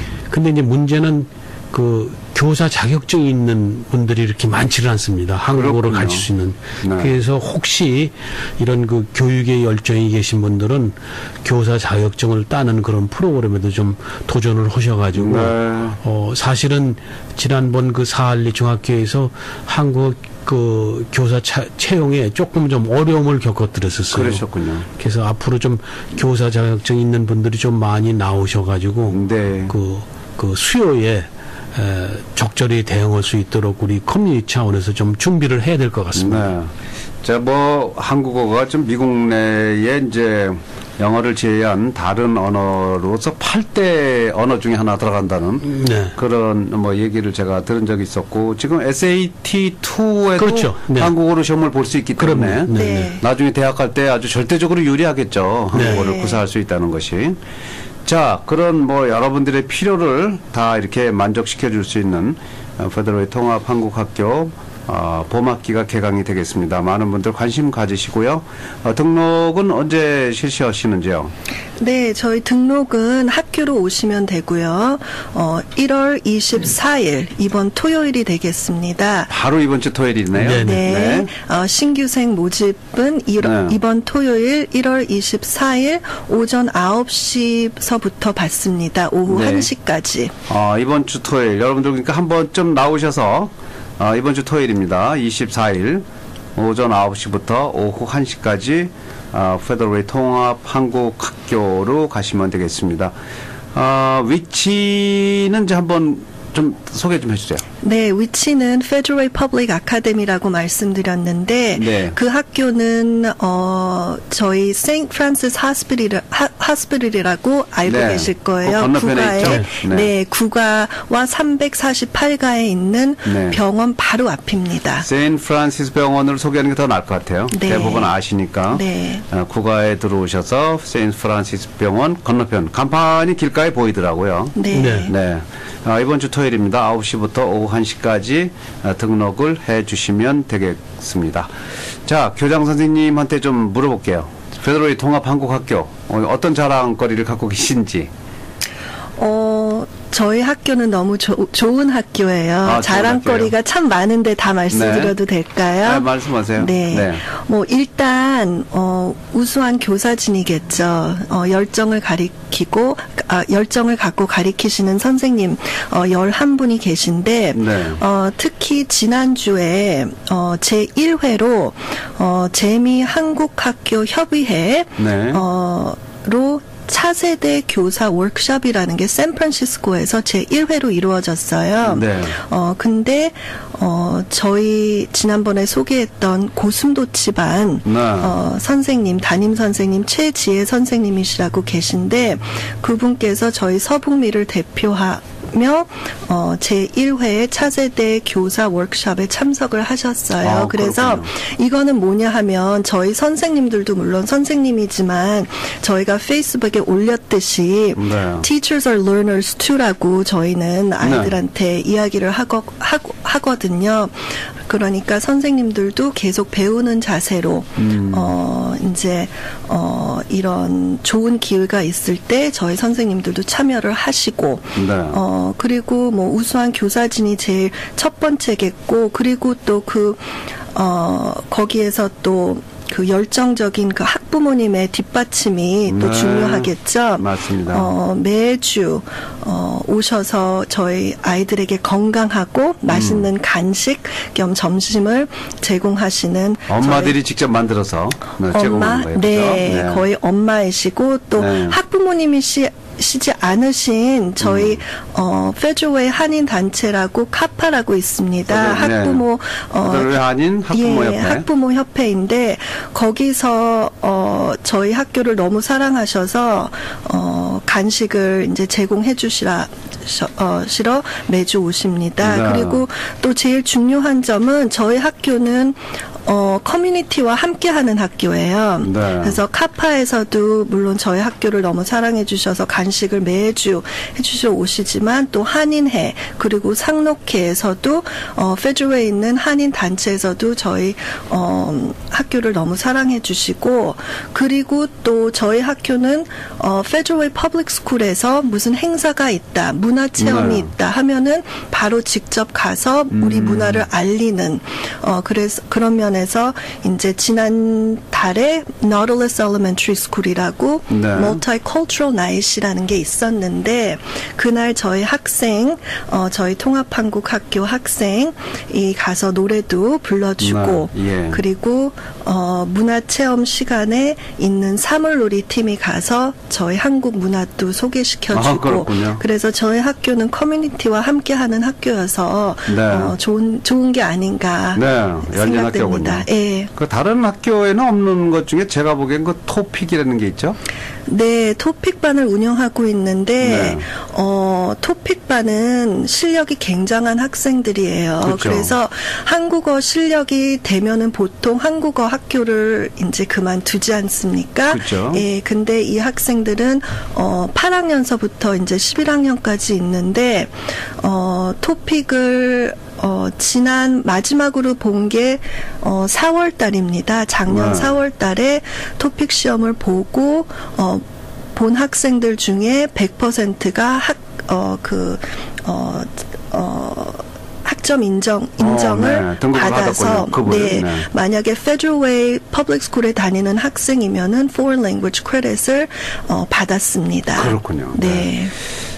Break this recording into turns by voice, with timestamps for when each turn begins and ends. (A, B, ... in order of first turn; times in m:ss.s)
0:00.3-0:24.4 A
0:05.5-0:06.3 B
0:06.8-0:07.1 B
0:15.1-0:16.0 B
0:24.1-0:24.8 B
0:25.0-0:36.5 A
0:29.1-0:29.7 B
0:36.1-0:57.4 B
0:45.6-0:46.1 A
0:50.4-0:51.1 A
0:52.2-0:53.1 A
0:52.7-0:53.2 C
0:55.7-0:56.4 C
0:55.7-0:56.0 A
0:58.0-1:11.3 B
1:11.8-1:19.3 C
1:19.3-1:21.3 B
1:20.4-1:20.9 A
1:20.6-1:30.3 C
1:23.4-1:23.8 B
1:29.3-1:29.7 B
1:30.5-1:43.1 B
1:43.7-1:47.6 B
1:47.8-2:05.1 C
1:51.7-1:52.2 B
1:57.8-2:00.1 B
1:59.4-1:59.7 A
2:03.2-2:03.6 B
2:05.0-2:21.5 B
2:07.5-2:08.1 C
2:08.7-2:09.2 C
2:14.6-2:15.1 C
2:14.7-2:15.1 A
2:22.0-2:28.1 B
2:29.2-4:07.2 C
2:32.6-2:33.5 B
2:34.7-2:35.2 B
2:35.8-2:37.2 B
2:47.5-2:48.0 B
2:55.0-2:55.4 B
3:01.8-3:02.4 B
3:07.8-3:08.3 B
3:20.4-3:21.3 B
3:28.0-3:28.5 B
3:31.0-3:31.4 B
3:37.8-3:38.3 B
3:44.8-3:45.2 B
3:55.9-3:57.9 B
4:02.9-4:03.3 B
4:06.7-4:10.0 B
4:08.5-4:20.1 C
4:11.4-4:11.8 B
4:14.4-4:14.8 B
4:18.5-4:19.2 B
4:19.8-4:21.5 B
4:20.7-5:36.7 C
4:32.2-4:32.8 B
4:38.8-4:39.4 B
5:00.2-5:00.7 B
5:03.1-5:03.8 B
5:10.9-5:11.4 B
5:20.4-5:21.4 B
5:28.3-5:29.2 B
5:32.7-5:33.1 B
5:34.7-5:40.6 B
5:41.1-6:28.5 C
5:43.4-5:43.8 B
5:48.2-5:48.7 B
5:54.7-5:55.2 B
6:07.5-6:07.9 B
6:18.6-6:21.1 B
6:27.3-6:28.3 B